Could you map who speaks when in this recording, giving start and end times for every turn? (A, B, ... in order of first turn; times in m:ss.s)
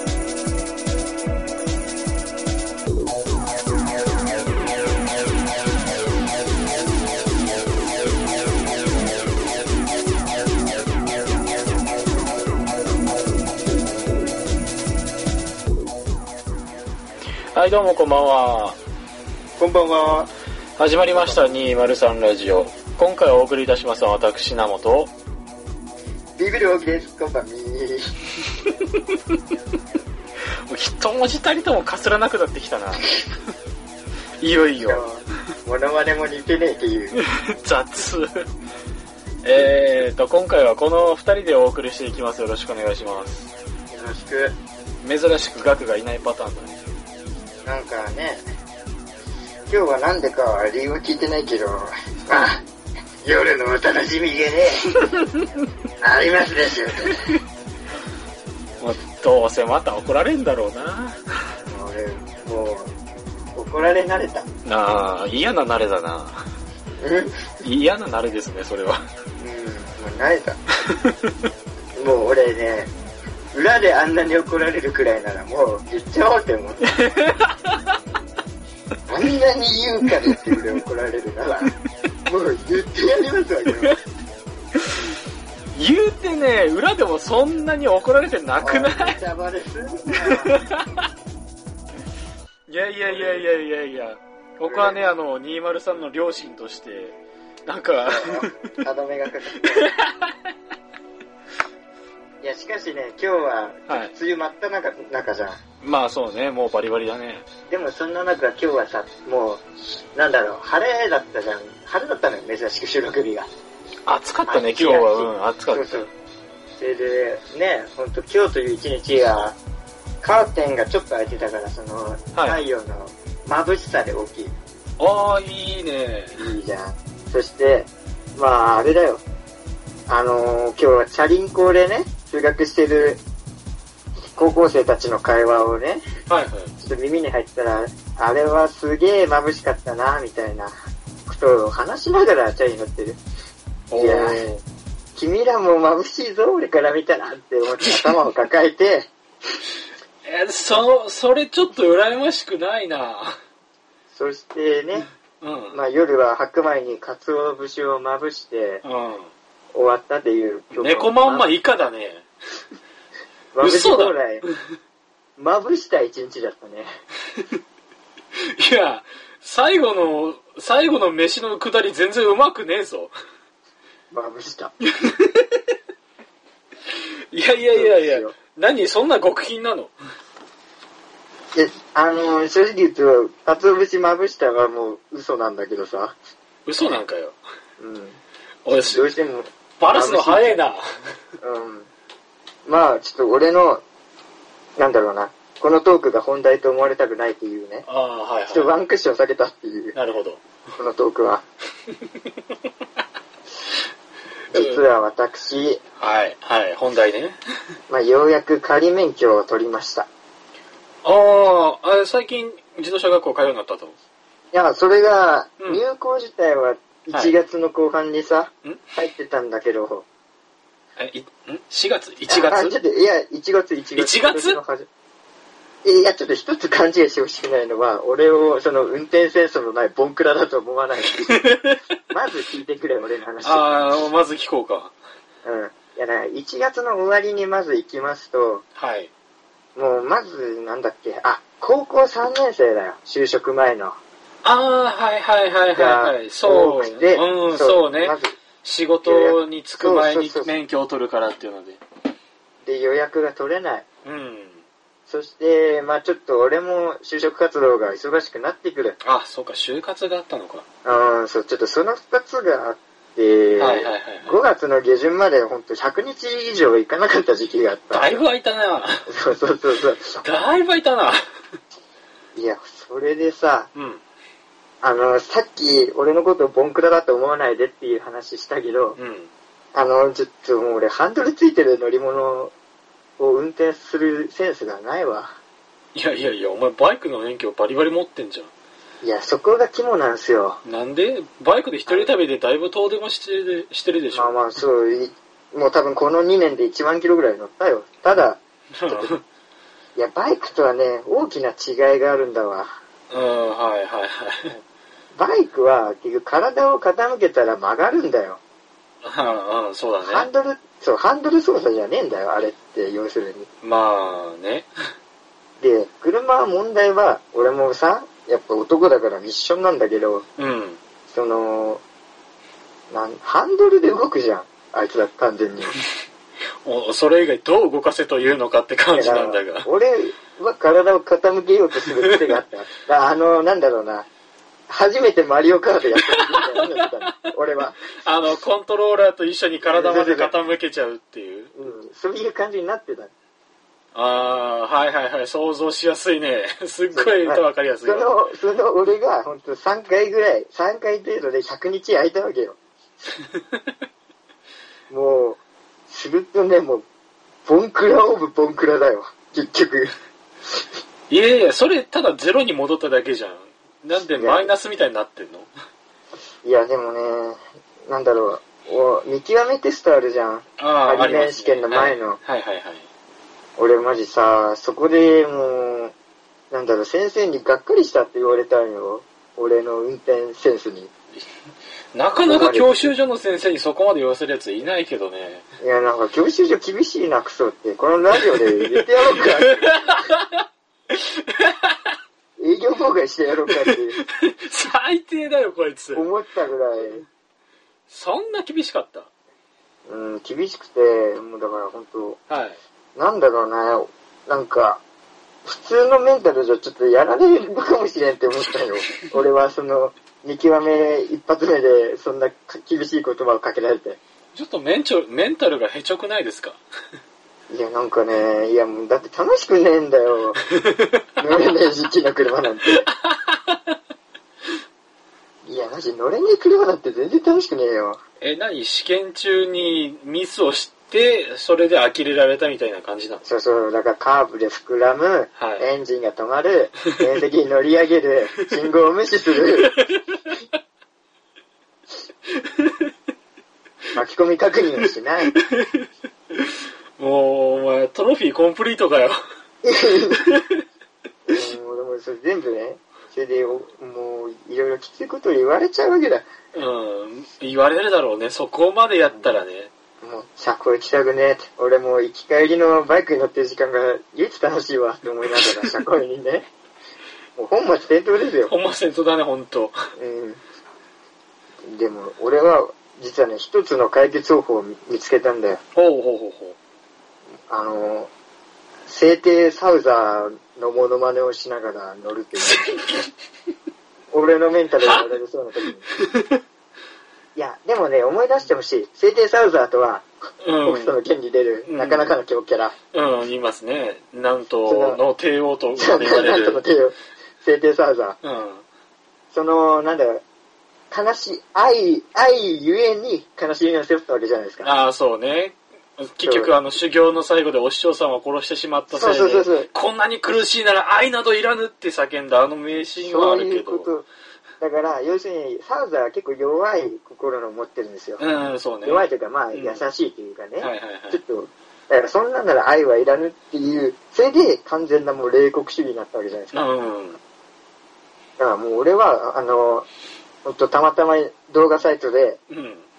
0:17.5-0:18.8 A
0:19.6-0:20.3 B
0:20.8-0:25.1 A
0:21.1-0:21.5 B
0:26.4-0:28.1 B
0:30.7-0:33.1 A
0:34.4-0:35.0 A
0:34.8-0:37.2 B
0:37.1-0:38.4 A
0:39.4-0:43.5 A
0:43.9-0:44.6 B
0:45.0-0:46.9 A
0:47.6-0:48.4 B
0:49.7-0:52.6 B
0:53.2-0:55.0 B
0:56.0-0:57.4 B
0:58.8-1:01.2 A
1:01.6-1:02.9 B
1:03.5-1:04.5 B
1:04.6-1:06.4 A
1:07.0-1:07.4 B
1:07.6-1:09.0 A
1:09.4-1:10.6 B
1:10.8-1:11.3 A
1:12.0-1:12.9 B
1:13.5-1:17.0 B
1:16.9-1:17.8 A
1:19.1-1:21.7 B
1:20.2-1:20.6 A
1:22.2-1:24.0 B
1:25.8-1:29.2 A
1:28.6-1:30.6 B
1:30.2-1:31.0 A
1:32.7-1:37.2 A
1:33.1-1:33.4 B
1:34.6-1:35.1 B
1:37.7-1:38.6 A
1:38.0-1:39.9 B
1:39.6-1:40.3 A
1:42.4-1:45.6 B
1:45.8-1:47.4 A
1:47.7-1:49.6 B
1:50.1-1:53.5 B
1:54.1-1:56.1 A
1:54.5-1:56.1 B
1:56.8-1:59.6 B
2:00.2-2:04.5 B
2:02.3-2:02.6 A
2:05.0-2:06.4 A
2:06.3-2:09.2 B
2:10.1-2:13.2 B
2:14.2-2:16.0 B
2:16.3-2:16.7 A
2:16.8-2:20.7 B
2:21.2-2:23.2 B
2:23.9-2:24.5 A
2:23.9-2:24.6 B
2:25.1-2:29.1 B
2:30.2-2:33.4 A
2:34.1-2:35.1 B
2:35.4-2:35.8 A
2:35.7-2:38.8 B
2:38.8-2:39.3 A
2:39.7-2:41.5 B
2:40.7-2:42.2 A
2:43.5-2:44.4 B
2:43.6-2:44.5 A
2:45.4-2:46.9 B
2:48.4-2:53.1 A
2:54.1-2:54.7 B
2:54.9-2:55.7 A
2:57.3-2:59.9 A
2:57.7-2:58.3 B
3:01.5-3:06.2 B
3:06.6-3:07.4 A
3:07.8-3:08.2 B
3:08.6-3:09.0 A
3:08.8-3:10.6 B
3:09.8-3:10.9 A
3:11.4-3:11.9 B
3:12.6-3:13.8 B
3:14.8-3:17.8 B
3:17.9-3:18.7 A
3:18.5-3:20.0 B
3:19.9-3:20.4 A
3:20.8-3:21.4 B
3:21.9-3:22.3 A
3:24.5-3:25.8 B
3:24.5-3:24.8 A
3:26.0-3:27.4 A
3:27.9-3:30.1 B
3:31.0-3:33.9 A
3:34.5-3:40.0 B
3:41.0-3:42.8 A
3:42.3-3:44.9 B
3:44.0-3:44.6 A
3:45.8-3:51.5 B
3:51.3-3:51.8 A
3:52.1-3:53.6 B
3:53.4-3:54.9 A
3:55.4-3:58.6 B
3:58.8-3:59.1 A
3:59.7-4:04.0 B
4:04.4-4:11.8 A
4:05.7-4:08.4 B
4:09.0-4:10.5 B
4:12.6-4:13.8 B
4:14.0-4:14.6 A
4:15.1-4:19.0 B
4:19.0-4:20.6 A
4:20.8-4:28.2 B
4:23.6-4:24.4 A
4:27.9-4:29.1 A
4:29.1-4:30.2 B
4:30.2-4:31.2 A
4:32.3-4:33.7 B
4:33.7-4:34.0 A
4:34.8-4:39.0 B
4:39.0-4:39.3 A
4:39.7-4:42.5 B
4:43.2-4:45.4 B
4:45.9-4:48.5 A
4:49.0-4:50.6 B
4:50.6-4:54.4 A
4:51.9-4:52.1 B
4:54.1-4:59.1 B
4:58.8-4:59.2 A
5:00.0-5:02.8 B
5:03.1-5:04.5 A
5:05.1-5:08.4 B
5:09.0-5:10.3 A
5:10.0-5:13.5 B
5:13.6-5:14.7 A
5:15.6-5:20.2 B
5:20.4-5:20.8 A
5:21.1-5:21.8 B
5:22.9-5:25.8 B
5:26.6-5:29.7 A
5:28.9-5:34.1 B
5:31.8-5:32.3 A
5:34.7-5:37.8 B
5:35.9-5:37.1 A
5:38.0-5:41.5 A
5:39.6-5:40.3 B
5:41.5-5:43.1 B
5:43.9-5:48.1 A
5:46.9-5:52.6 B
5:54.9-5:56.8 B
5:57.4-6:00.0 B
6:01.1-6:05.5 A
6:04.1-6:04.5 B
6:06.4-6:12.2 B
6:10.6-6:12.8 A
6:13.6-6:15.9 B
6:16.5-6:20.9 B
6:21.9-6:25.4 A
6:22.2-6:22.9 B
6:25.6-6:29.8 B
6:28.2-6:31.7 A
6:32.4-6:34.0 B
6:33.5-6:36.1 A
6:35.9-6:37.0 B
6:37.9-6:39.1 A
6:39.9-6:42.2 B
6:42.3-6:42.6 A
6:43.0-6:44.8 B
6:45.4-6:54.0 B
6:54.3-6:56.6 A
6:57.5-7:00.4 B
7:00.6-7:01.0 A
7:01.2-7:02.9 B
7:02.7-7:03.7 A
7:05.4-7:08.0 B
7:08.2-7:13.2 A
7:13.2-7:19.7 B
7:15.4-7:15.6 A
7:19.6-7:20.4 A
7:22.4-7:22.8 A
7:23.9-7:25.4 B
7:25.3-7:29.2 A
7:29.6-7:30.3 B
7:30.2-7:30.6 A
7:31.3-7:36.3 B
7:36.5-7:39.7 A
7:40.0-7:46.5 B
7:45.3-7:45.8 A
7:47.4-7:48.5 B
7:48.4-7:49.7 A
7:50.0-7:50.4 B
7:51.6-7:55.6 B
7:55.7-7:56.6 A
7:57.4-7:58.1 B
7:58.9-8:02.9 B
8:02.5-8:03.1 A
8:04.1-8:05.9 B
8:05.9-8:06.4 A
8:07.3-8:10.1 B
8:10.4-8:11.0 A
8:10.6-8:12.8 B
8:11.6-8:12.2 A
8:12.9-8:16.6 A
8:14.6-8:15.0 B
8:15.7-8:18.2 B
8:18.2-8:18.6 A
8:19.3-8:20.2 B
8:20.9-8:24.7 B
8:24.6-8:33.9 A
8:26.2-8:26.5 B
8:28.9-8:29.7 B
8:33.0-8:34.0 B
8:34.6-8:46.7 B
8:38.2-8:39.8 A
8:40.6-8:41.2 A
8:46.5-8:47.2 A
8:48.4-8:49.9 B
8:50.4-8:52.4 B
8:52.5-8:52.8 A